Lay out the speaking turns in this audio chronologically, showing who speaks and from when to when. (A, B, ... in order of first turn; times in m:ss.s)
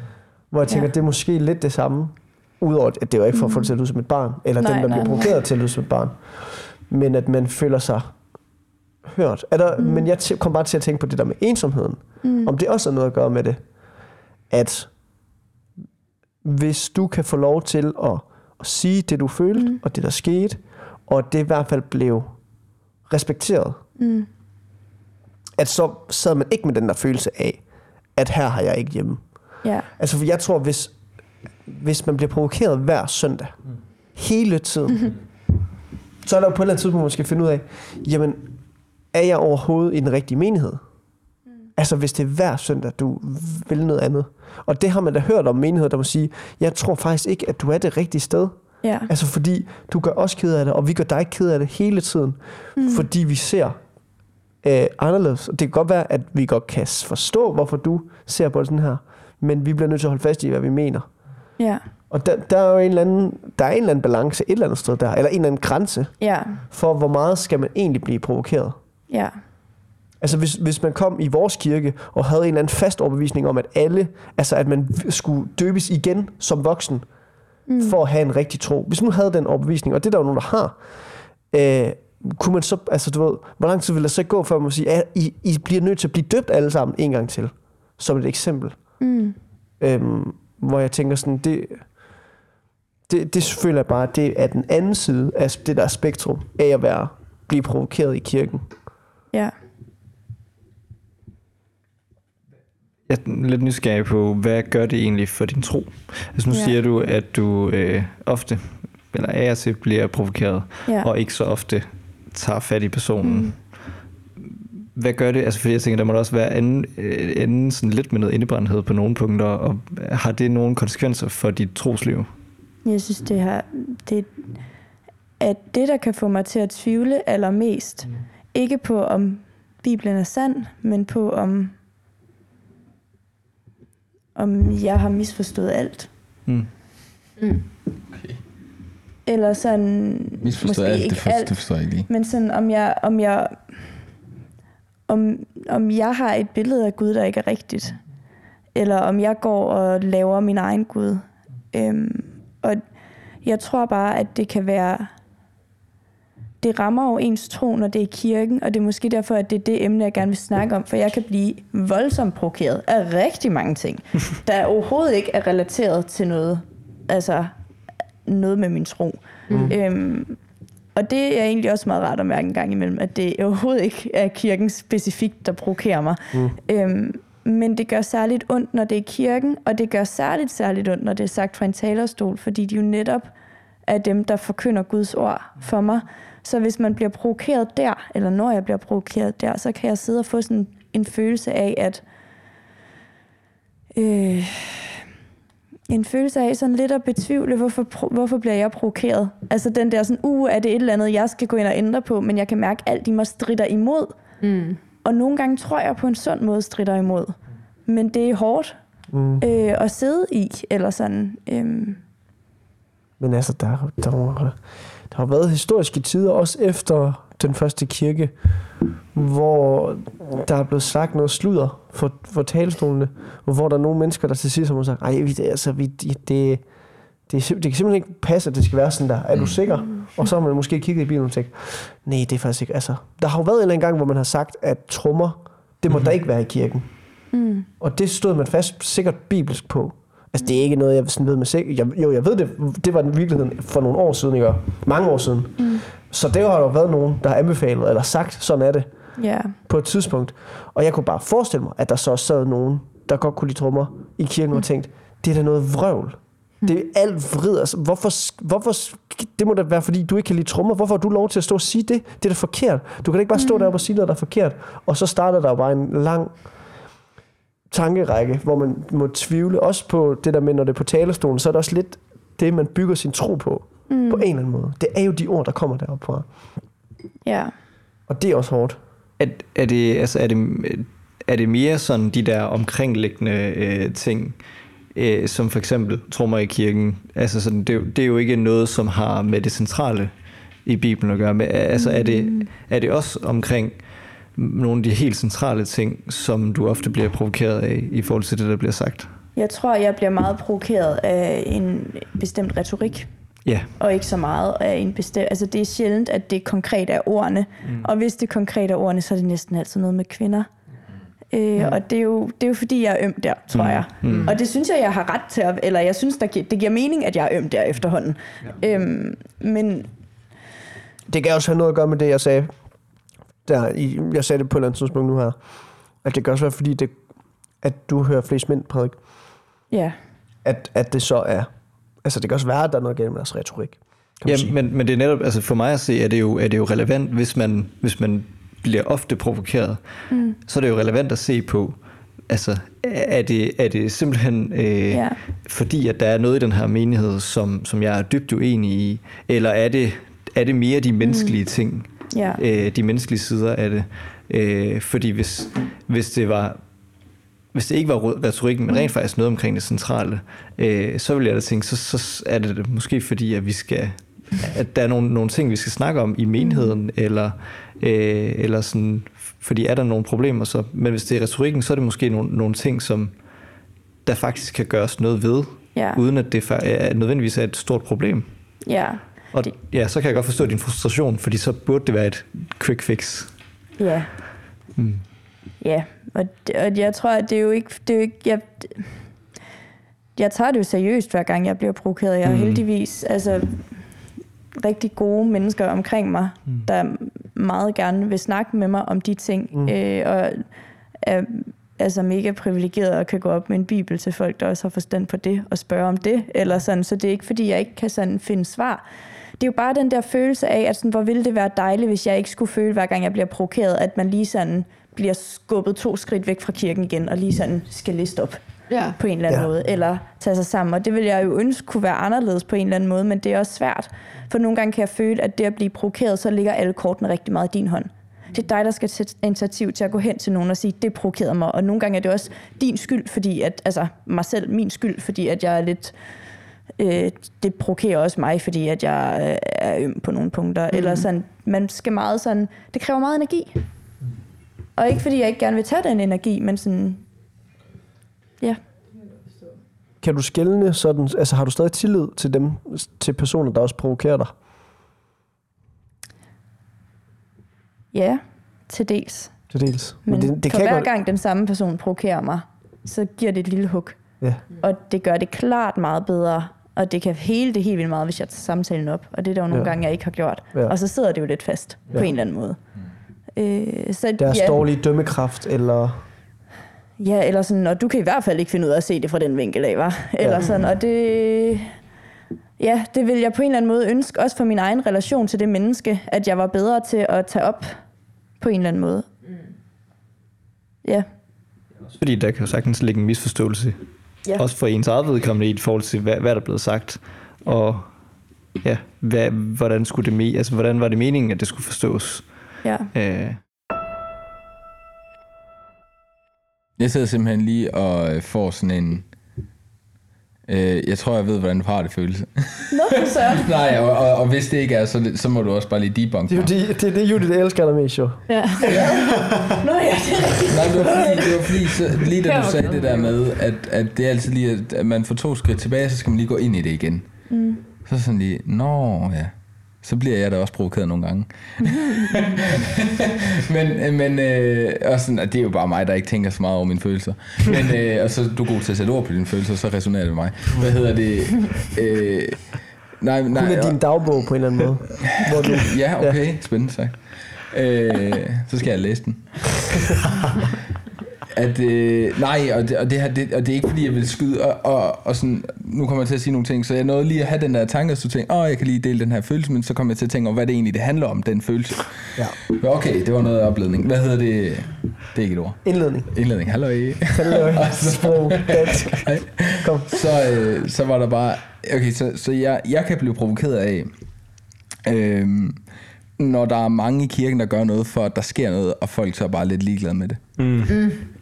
0:00.5-0:08.1 A
0:03.3-0:03.7 B
0:04.6-0:05.3 B
0:09.0-0:13.6 A
0:09.8-0:10.0 B
0:12.2-0:12.5 B
0:14.5-0:14.9 A
0:16.4-0:22.4 A
0:23.1-0:23.8 A
0:24.0-0:24.3 B
0:25.6-0:27.6 A
0:28.2-0:30.9 A
0:29.6-0:29.9 B
0:31.6-0:33.6 A
0:34.1-0:35.2 A
0:36.2-0:38.5 A
0:39.1-0:40.8 A
0:41.8-0:53.8 A
0:48.8-0:49.1 B
0:52.8-0:53.1 B
0:54.6-1:01.1 A
1:01.6-1:01.8 B
1:02.1-1:08.8 A
1:06.2-1:06.6 B
1:09.1-1:09.4 B
1:10.2-1:17.0 A
1:17.7-1:18.0 B
1:17.8-1:20.8 A
1:21.5-1:28.8 A
1:29.0-1:29.4 B
1:29.8-1:31.9 A
1:33.1-1:38.7 A
1:43.1-1:53.7 C
1:53.2-1:53.5 B
1:55.0-2:02.3 C
2:02.8-2:04.3 B
2:05.4-2:11.7 B
2:14.4-2:16.1 B
2:17.4-2:17.6 D
2:18.1-2:18.4 E
2:19.2-2:23.6 B
2:20.4-2:22.1 E
2:25.1-2:28.0 B
2:28.7-2:32.8 B
2:33.4-2:35.1 B
2:36.6-2:47.5 B
2:48.2-2:50.4 B
2:49.5-2:49.8 D
2:49.5-2:49.7 A
2:50.9-3:03.3 B
3:03.9-3:12.0 B
3:13.9-3:15.0 B
3:15.9-3:24.2 B
3:24.4-3:24.8 D
3:25.0-3:27.4 B
3:27.9-3:28.8 B
3:29.1-3:29.4 A
3:29.4-3:32.0 B
3:33.2-3:34.6 A
3:35.1-3:38.3 A
3:39.1-3:46.6 A
3:47.3-3:56.8 A
3:57.3-3:57.7 B
3:57.8-4:08.9 A
4:05.6-4:05.8 B
4:09.2-4:09.5 B
4:09.6-4:26.3 A
4:23.4-4:23.7 B
4:27.7-4:36.3 A
4:33.9-4:34.2 B
4:37.2-4:37.5 B
4:38.1-4:38.8 A
4:39.2-4:44.4 C
4:44.9-4:50.1 C
4:50.6-4:53.8 C
4:51.8-4:52.4 B
4:54.3-4:59.1 C
4:59.4-5:03.1 B
5:03.4-5:03.7 C
5:03.8-5:10.5 B
5:11.3-5:19.9 B
5:13.5-5:14.4 C
5:14.0-5:14.3 D
5:21.1-5:22.5 A
5:23.4-5:25.4 A
5:26.0-5:27.0 A
5:27.6-5:29.0 A
5:29.7-5:30.0 B
5:30.4-5:31.5 A
5:32.0-5:34.5 A
5:34.2-5:39.8 C
5:40.1-5:40.4 B
5:40.4-5:41.8 C
5:42.3-5:56.6 C
5:44.9-5:45.2 B
5:51.0-5:51.4 B
5:52.1-5:52.4 B
5:57.5-6:13.2 C
6:06.4-6:06.7 B
6:14.0-6:18.3 C
6:15.7-6:16.0 B
6:18.6-6:19.5 B
6:19.3-6:23.3 C
6:23.8-6:24.1 B
6:24.8-6:25.0 C
6:25.6-6:28.9 B
6:30.2-6:33.6 B
6:32.2-6:32.6 C
6:34.6-6:40.4 B
6:41.0-6:48.8 B
6:49.4-6:58.4 B
6:58.7-6:59.0 D
6:59.0-7:15.9 B
7:16.8-7:23.6 B
7:20.8-7:21.0 D
7:24.8-7:27.0 B
7:30.0-7:34.3 A
7:37.9-7:39.3 B
7:39.5-7:40.9 A
7:40.0-7:44.0 B
7:44.6-7:52.6 B
7:53.4-7:54.6 B
7:54.2-7:56.0 A
7:57.0-8:01.7 B
8:00.2-8:00.6 A
8:02.6-8:07.7 B
8:08.4-8:09.0 B
8:11.9-8:13.8 C
8:14.3-8:17.9 C
8:18.6-8:23.4 C
8:22.6-8:22.9 B
8:26.8-8:29.0 E
8:30.5-8:36.5 E
8:32.7-8:33.5 B
8:36.3-8:39.4 A
8:38.3-8:38.7 D
8:38.6-8:41.5 B
8:40.5-8:47.1 E
8:42.2-8:43.1 D
8:47.3-8:47.6 B
8:47.8-9:04.0 E
9:03.3-9:06.2 A
9:05.0-9:10.0 E
9:11.3-9:33.9 E
9:25.6-9:26.1 A
9:27.0-9:30.3 A
9:34.8-9:35.6 E
9:36.2-9:40.2 E
9:40.4-9:40.7 C
9:40.7-9:41.0 D